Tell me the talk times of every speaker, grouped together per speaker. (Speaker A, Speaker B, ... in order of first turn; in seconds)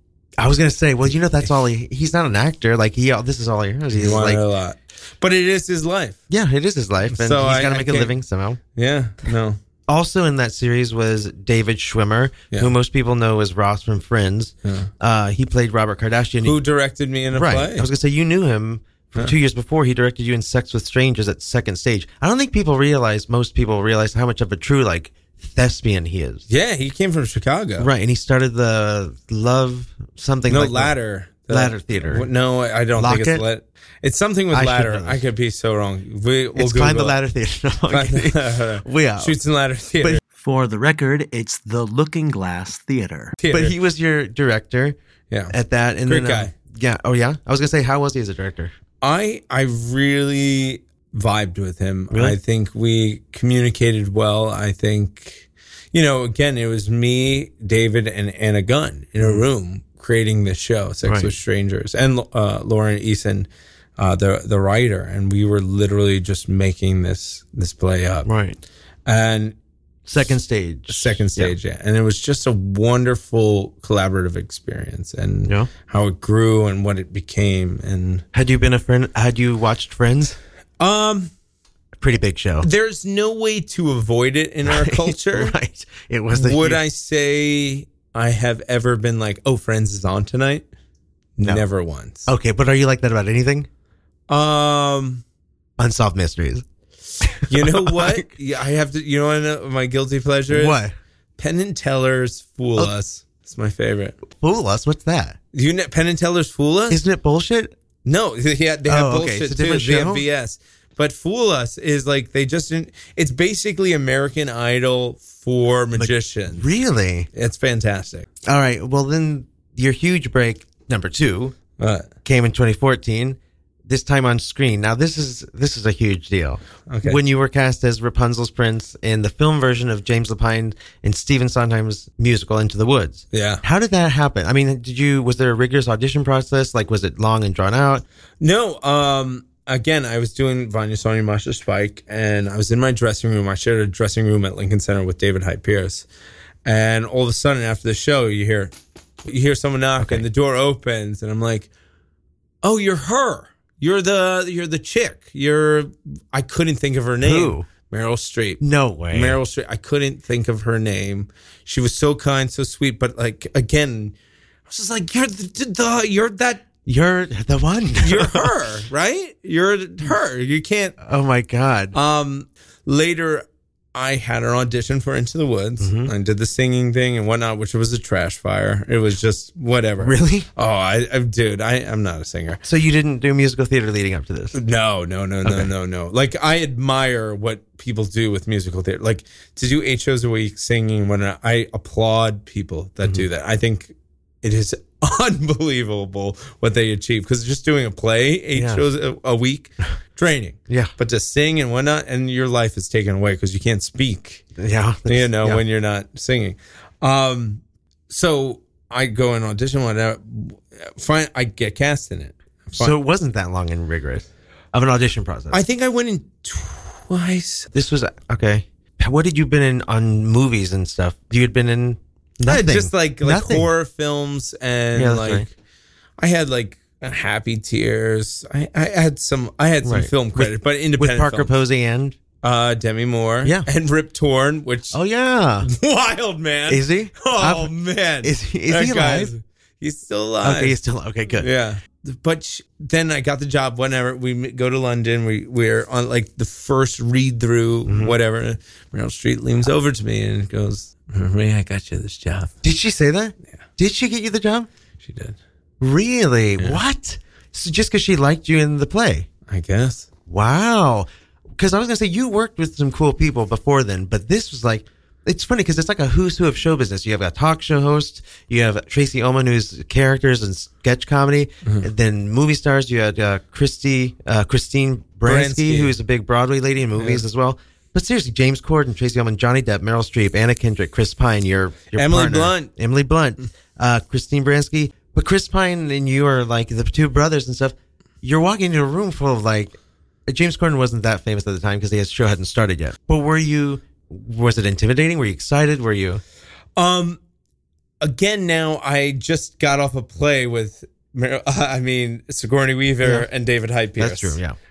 Speaker A: 0.4-4.4, 6.3-8.6, 9.9-16.6, 17.3-26.4, 27.8-30.9, 31.5-32.3, 33.0-33.5, 34.5-35.2, 36.5-39.4, 43.5-45.0, 45.5-48.7, 52.1-52.4, 61.0-61.3, 68.3-68.6, 70.1-71.5, 75.5-75.7, 78.3-80.4, 82.0-82.7, 84.7-86.8, 92.3-93.7, 95.8-96.6, 97.2-98.3, 100.5-100.9, 104.3-105.4, 106.9-107.7, 108.9-110.2, 116.0-117.3, 118.5-121.6, 122.2-138.1, 150.0-150.2, 157.2-157.7, 158.6-159.4, 166.9-168.5, 171.0-171.9, 175.8-176.1, 180.0-180.5, 182.6-184.6, 185.4-185.7, 198.6-198.8, 204.6-205.6, 212.7-215.6, 217.7-223.7, 224.9-225.5, 229.8-232.2, 234.9-235.7, 236.7-237.7, 238.2-239.3, 240.4-241.5, 247.9-248.2, 252.6-254.7, 255.8-259.3, 260.3-289.8, 290.3-296.2, 304.0-304.6
Speaker B: 3.9-6.2, 7.1-8.1, 8.7-9.6, 16.4-17.9, 26.5-27.9, 30.5-37.2, 37.9-40.2, 43.4-43.8, 46.0-46.5, 49.0-68.3, 69.0-69.5, 70.9-78.2, 80.8-81.3, 82.6-85.5, 86.3-90.6, 91.4-92.3, 94.3-95.2, 97.5-100.8, 101.4-104.2, 105.5-107.0, 108.0-116.7, 117.3-118.3, 121.8-122.1, 126.9-127.2, 133.3-133.6, 138.4-146.1, 146.6-148.7, 149.3-151.7, 152.6-158.6, 159.1-164.1, 164.7-166.7, 168.0-171.0, 171.9-182.6, 184.5-204.4, 205.1-212.9, 215.5-217.7, 222.4-225.5, 226.2-231.5, 232.4-235.0, 235.6-240.8, 241.4-252.5, 255.0-255.4, 259.5-260.1, 275.2-275.9, 277.0-277.2, 281.9-282.7, 296.8-297.2, 298.0-304.4
Speaker C: 40.4-43.3